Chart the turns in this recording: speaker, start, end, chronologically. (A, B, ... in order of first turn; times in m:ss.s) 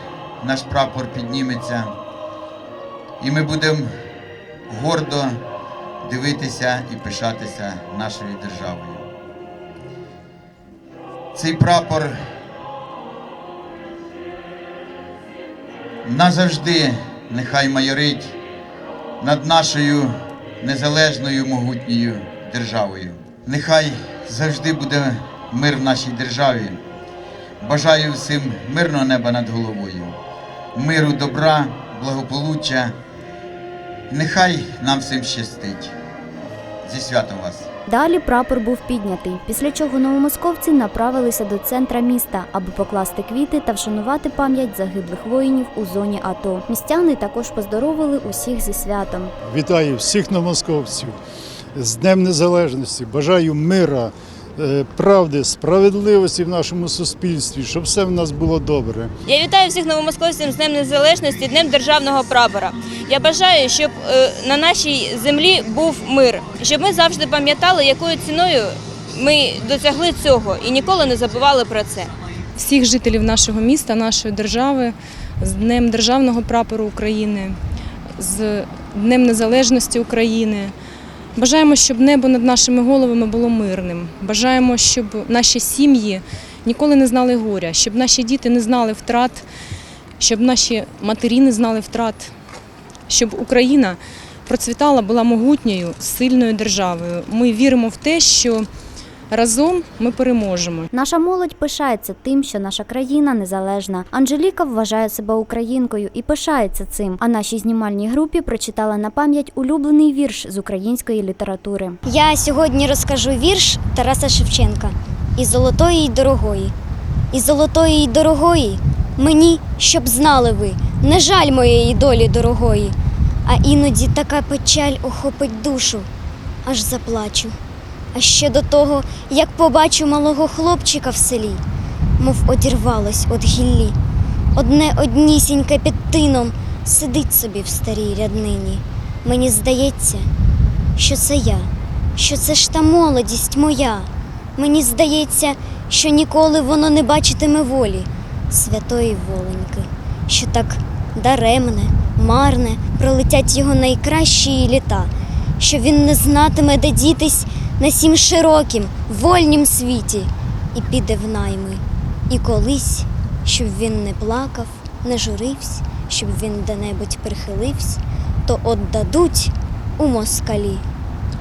0:00.4-0:01.9 A
0:03.2-0:03.9 A
0:04.7-0:05.4 A
0:06.0-0:09.0 A
0:11.3-0:12.2 A
0:16.0-0:18.3 A
0:19.2-0:26.8 A
0:27.6-0:30.2 A
0:30.7-0:32.9 A
0:34.1-0:35.9 A
0:36.8-0:37.7 A
0:37.9-0:49.3 B
0:49.4-0:51.2 C
0:51.7-0:59.1 C
0:59.2-1:12.1 D
1:12.6-1:17.6 E
1:18.2-1:20.7 E
1:21.4-1:29.4 E
1:30.2-1:32.3 E
1:33.1-1:38.7 E
1:39.3-1:40.9 E
1:40.9-1:52.0 B
1:52.0-1:56.7 F
1:57.3-2:06.1 F
2:06.6-2:07.6 F
2:08.1-2:11.6 F
2:12.2-2:14.0 F
2:14.5-2:20.3 F
2:21.0-2:50.8 F